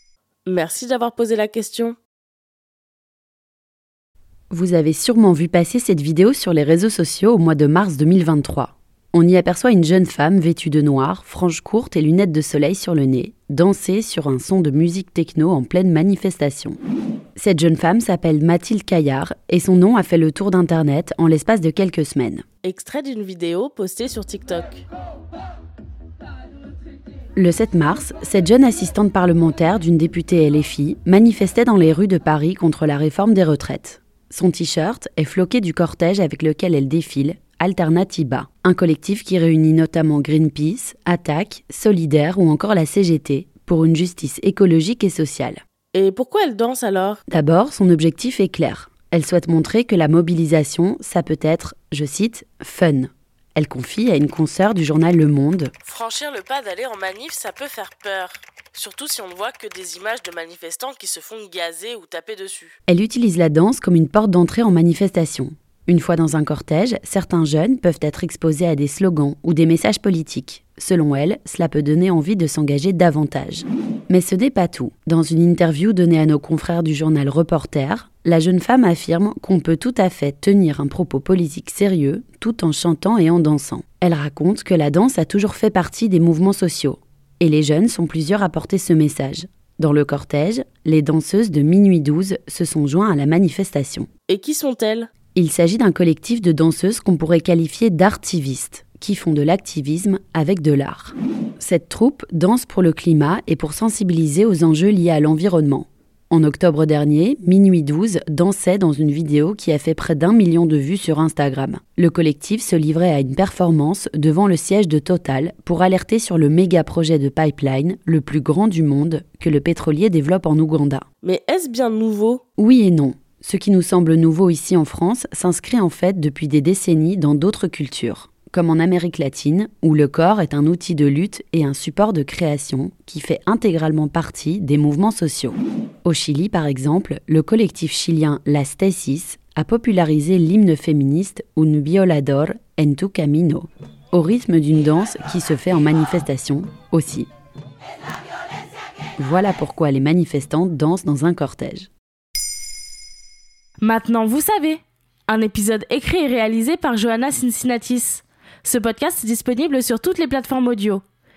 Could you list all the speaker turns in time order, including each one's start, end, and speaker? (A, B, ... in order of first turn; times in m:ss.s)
0:00.5-0:02.0 A
0:04.5-0:16.8 B
0:17.4-0:22.4 B
0:22.6-0:24.8 A
0:27.4-0:45.6 B
0:45.9-0:47.2 A
0:47.3-0:55.7 B
0:55.8-1:02.8 A
1:02.9-1:34.1 B
1:34.3-1:35.1 A
1:35.4-2:01.1 B
2:01.2-2:02.4 A
2:02.6-2:27.3 B
2:29.2-2:31.9 B
2:33.8-2:41.0 A